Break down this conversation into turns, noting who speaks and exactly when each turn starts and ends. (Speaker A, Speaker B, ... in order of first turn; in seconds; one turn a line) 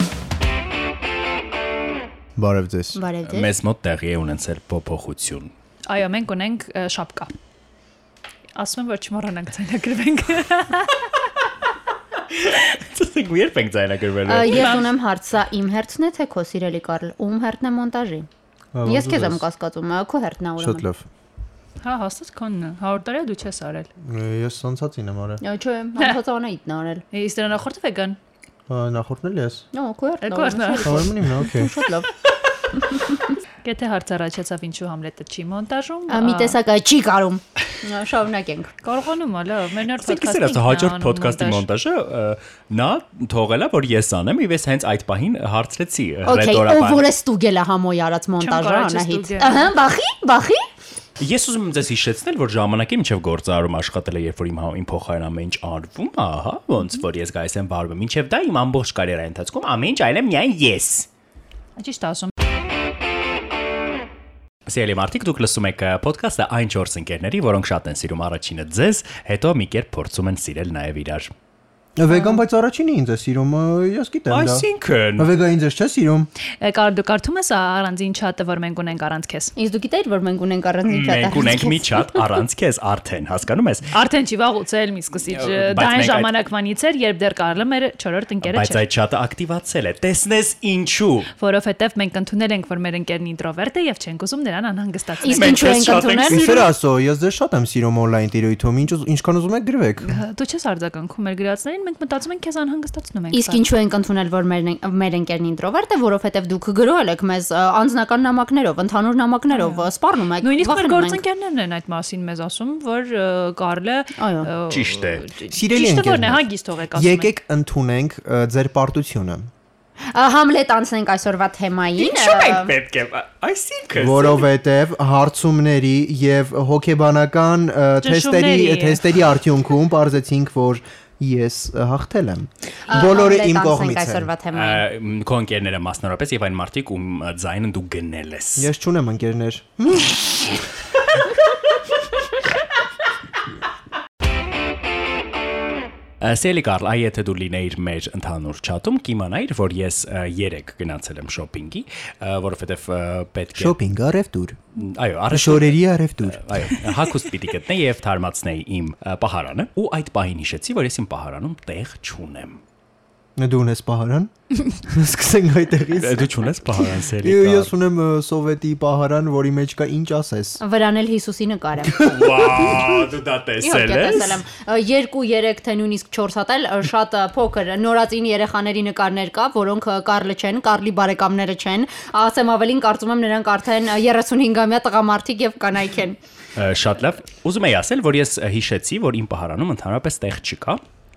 Speaker A: 2.4-3.0
Speaker B: 2.9-3.5
Speaker C: 3.2-5.5
Speaker D: 5.9-7.3
Speaker D: 8.5-11.0
Speaker C: 12.3-14.9
Speaker B: 14.2-18.3
Speaker D: 14.5-14.8
Speaker A: 18.7-19.4
Speaker B: 18.8-20.8
Speaker A: 20.6-21.0
Speaker D: 21.8-23.9
Speaker A: 24.0-25.4
Speaker B: 25.4-27.0
Speaker D: 27.1-28.2
Speaker A: 28.7-29.6
Speaker B: 29.7-32.1
Speaker D: 30.2-31.1
Speaker A: 30.8-31.7
Speaker B: 32.7-33.4
Speaker D: 33.6-36.6
Speaker B: 36.1-38.7
Speaker D: 38.8-41.6
Speaker C: 40.0-47.1
Speaker B: 46.2-50.6
Speaker D: 48.4-49.7
Speaker C: 51.2-61.1
Speaker D: 61.8-62.3
Speaker C: 64.7-71.3
Speaker A: 72.0-76.3
Speaker D: 72.1-72.4
Speaker C: 74.3-75.3
Speaker D: 76.6-79.5
Speaker B: 79.5-82.2
Speaker C: 80.9-83.9
Speaker D: 83.9-88.8
Speaker C: 85.3-86.3
Speaker C: 88.4-91.3
Speaker D: 91.4-96.2
Speaker B: 95.2-96.6
Speaker C: 95.3-96.7
Speaker A: 96.3-100.1
Speaker D: 100.0-103.6
Speaker B: 103.3-111.2
Speaker D: 109.5-109.9
Speaker D: 110.4-117.3
Speaker B: 114.2-114.5
Speaker C: 114.7-115.2
Speaker A: 115.5-119.5
Speaker B: 120.1-122.8
Speaker D: 122.0-122.6
Speaker C: 122.5-124.5
Speaker A: 124.0-134.3
Speaker D: 128.0-129.0
Speaker B: 132.9-134.8
Speaker C: 134.5-138.7
Speaker A: 138.6-140.4
Speaker C: 146.2-153.8
Speaker A: 153.5-154.6
Speaker C: 154.8-162.6
Speaker A: 155.3-156.7
Speaker A: 163.4-166.3
Speaker C: 165.9-167.7
Speaker A: 167.2-170.6
Speaker B: 170.6-172.7
Speaker C: 172.0-174.4
Speaker B: 173.6-186.2
Speaker C: 186.6-190.8